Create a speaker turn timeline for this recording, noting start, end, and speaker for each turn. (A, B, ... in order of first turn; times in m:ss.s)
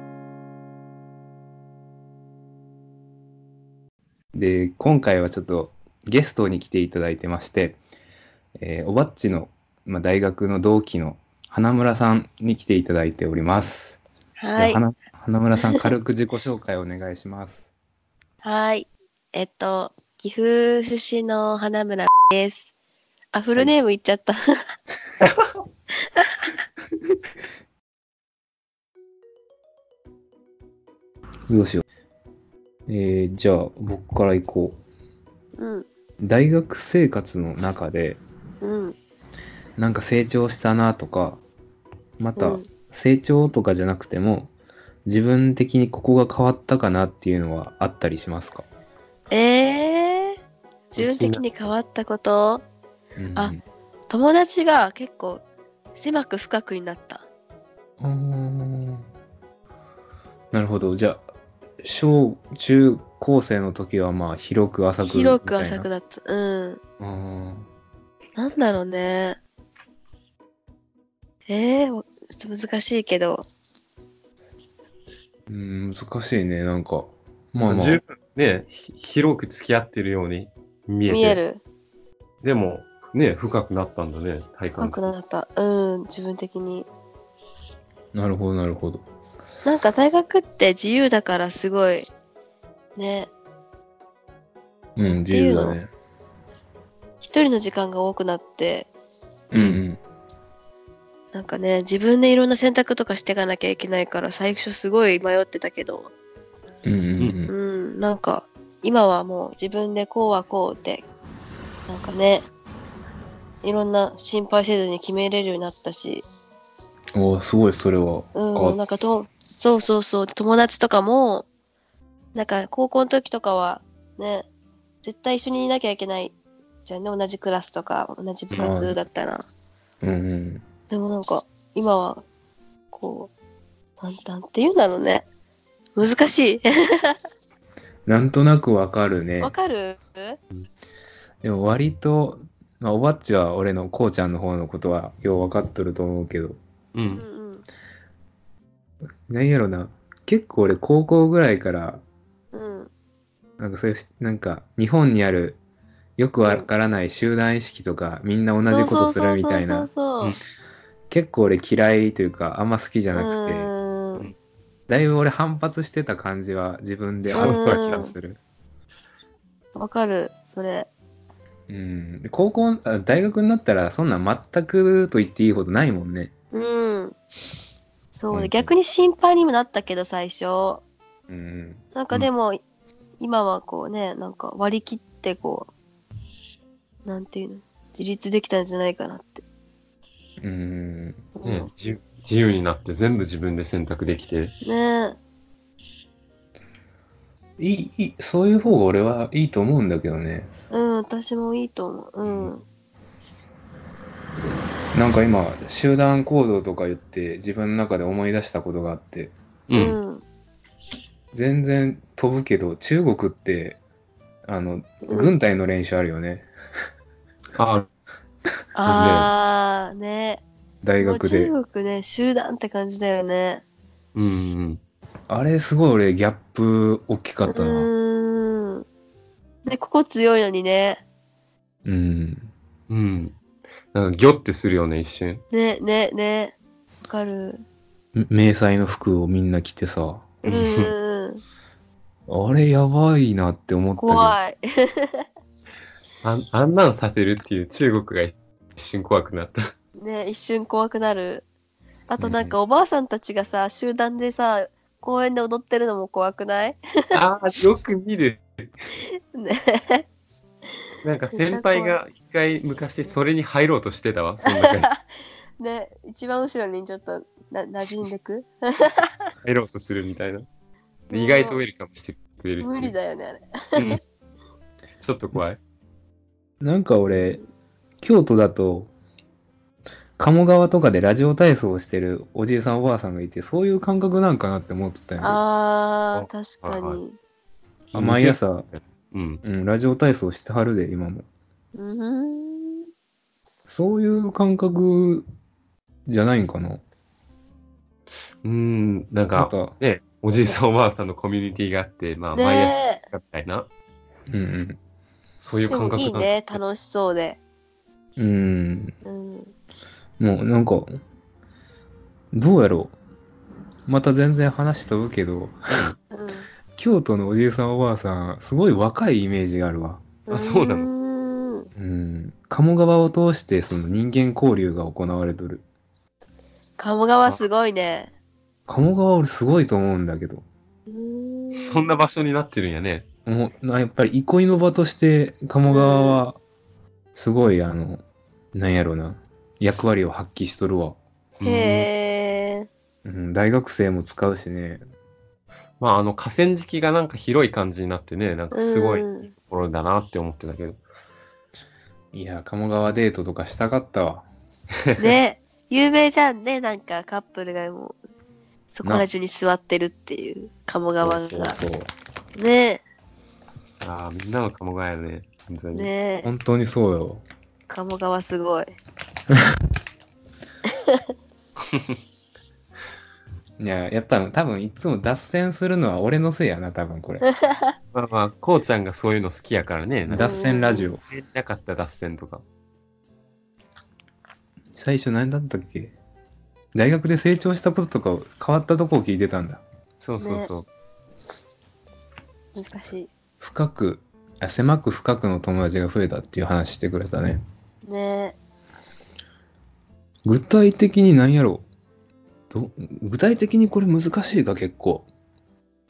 0:04.3-0:07.8 A
0:08.6-0:14.0 A
0:14.4-0:14.8 B
0:14.6-0:17.7 A
0:18.4-0:22.7 B
0:23.3-0:24.4 B
0:31.5-0:31.8 A
0:32.9-0:34.8 A
0:35.6-0:35.9 B
0:36.2-0:38.2 A
0:38.6-0:39.0 B
0:39.8-0:41.4 A
0:42.2-0:44.5 A
0:42.4-0:42.7 B
0:45.1-0:48.6 A
0:49.3-0:50.4 B
0:50.9-0:52.6 B
0:51.0-0:51.4 C
0:53.2-0:53.6 A
0:54.1-0:57.3 B
0:58.0-0:59.1 A
1:00.5-1:01.2 A
1:01.8-1:05.9 A
1:05.0-1:06.8 B
1:07.0-1:07.7 A
1:08.4-1:09.4 B
1:11.5-1:13.4 B
1:15.5-1:18.0 A
1:17.6-1:21.4 C
1:21.1-1:21.6 B
1:22.4-1:25.1 C
1:24.8-1:26.9 B
1:28.1-1:29.0 A
1:29.6-1:32.1 B
1:33.0-1:33.3 B
1:35.0-1:35.9 A
1:35.3-1:35.8 B
1:37.2-1:38.9 B
1:39.5-1:40.0 A
1:39.5-1:39.8 C
1:41.3-1:46.1 B
1:46.8-1:47.5 A
1:47.5-1:51.1 B
1:51.9-1:52.5 B
1:53.6-1:56.3 B
1:57.2-1:58.8 A
1:58.4-2:01.4 B
2:02.3-2:04.5 B
2:05.0-2:06.3 B
2:06.8-2:09.4 B
2:08.6-2:09.0 A
2:10.0-2:10.6 A
2:10.9-2:12.2 B
2:12.9-2:13.3 B
2:14.0-2:15.3 B
2:16.0-2:17.2 B
2:18.1-2:19.5 A
2:19.4-2:20.4 B
2:21.4-2:26.6 A
2:26.9-2:27.2 C
2:27.2-2:27.6 B
2:29.3-2:32.0 A
2:32.5-2:32.9 B
2:33.6-2:35.6 A
2:36.2-2:39.9 A
2:36.4-2:36.7 B
2:38.7-2:40.4 B
2:41.1-2:43.7 A
2:43.1-2:44.3 B
2:44.9-2:48.4 A
2:47.2-2:48.1 C
2:47.4-2:48.1 B
2:49.8-2:50.9 B
2:51.7-2:56.3 A
2:56.5-2:57.2 B
2:58.1-3:00.8 B
2:58.3-2:58.7 A
3:01.3-3:01.8 A
3:02.0-3:02.6 B
3:03.2-3:05.7 B
3:07.0-3:09.4 B
3:10.4-3:11.2 A
3:11.4-3:11.7 B
3:11.4-3:14.5 C
3:14.6-3:15.2 B
3:17.6-3:20.5 A
3:20.7-3:22.6 B
3:22.2-3:22.6 C
3:25.0-3:29.4 A
3:29.7-3:30.0 C
3:29.8-3:30.2 B
3:31.3-3:33.8 A
3:34.5-3:36.5 A
3:35.0-3:35.3 B
3:37.6-3:37.9 C
3:38.8-3:40.4 B
3:38.9-3:39.3 C
3:40.8-3:41.5 A
3:41.0-3:43.6 B
3:44.2-3:44.8 C
3:45.3-3:47.9 A
3:47.5-3:48.8 B
3:49.6-3:51.0 B
3:51.8-3:52.5 A
3:52.9-3:53.4 C
3:53.9-3:55.4 C
3:55.5-3:56.6 B
3:57.1-3:57.6 B
3:58.2-4:00.3 A
4:00.4-4:00.9 C
4:00.5-4:01.4 B
4:02.3-4:04.4 A
4:04.0-4:05.2 B
4:06.2-4:09.6 C
4:10.0-4:11.5 B
4:12.1-4:16.8 B
4:12.2-4:12.6 A
4:17.1-4:18.4 C
4:19.3-4:20.0 B
4:21.0-4:24.9 C
4:21.3-4:22.0 B
4:24.5-4:25.0 B
4:25.6-4:29.2 B
4:29.4-4:30.5 C
4:31.1-4:33.0 C
4:31.1-4:31.6 B
4:32.6-4:34.0 B
4:33.8-4:34.0 C
4:35.0-4:35.6 C
4:36.6-4:37.4 A
4:38.0-4:38.9 A
4:40.2-4:45.4 A
4:45.2-4:47.2 B
4:46.1-4:47.0 C
4:47.9-4:49.4 C
4:47.9-4:48.7 A
4:49.4-4:51.3 A
4:51.8-4:52.9 B
4:53.7-4:55.3 A
4:56.1-4:56.8 A
4:58.4-5:03.7 C
4:59.4-4:59.8 A
5:02.3-5:03.0 B
5:04.3-5:04.8 A
5:05.4-5:06.6 C
5:05.7-5:07.4 B
5:08.2-5:09.0 A
5:09.0-5:09.5 B
5:10.2-5:11.0 A
5:12.3-5:13.0 A
5:13.9-5:15.9 A
5:15.7-5:16.0 C
5:16.1-5:16.5 B
5:16.8-5:20.1 A
5:20.3-5:21.7 B
5:20.3-5:20.9 C
5:21.8-5:25.6 A
5:26.8-5:28.1 B
5:28.7-5:30.4 A
5:30.9-5:32.0 B
5:31.6-5:33.0 C
5:33.3-5:36.4 A
5:35.7-5:36.2 B
5:37.2-5:38.0 A
5:38.6-5:41.0 A
5:41.4-5:41.9 C
5:41.4-5:42.7 B
5:43.0-5:44.8 A
5:45.8-5:50.8 C
5:48.5-5:49.3 B
5:52.1-5:54.3 A
5:55.0-5:58.0 B
5:58.7-6:01.6 B
6:01.0-6:01.9 A
6:02.4-6:02.8 B
6:03.8-6:05.9 C
6:05.7-6:06.3 B
6:06.2-6:07.2 A
6:07.7-6:08.7 B
6:13.6-6:17.2 A
6:17.2-6:17.7 B
6:17.9-6:20.4 C
6:20.1-6:21.0 A
6:20.2-6:20.9 B
6:21.0-6:22.4 C
6:24.8-6:26.0 A
6:26.8-6:29.6 A
6:30.0-6:30.7 C
6:30.2-6:30.5 B
6:32.5-6:33.1 B
6:33.4-6:37.4 A
6:37.9-6:38.4 B
6:40.2-6:41.7 A
6:42.5-6:45.1 A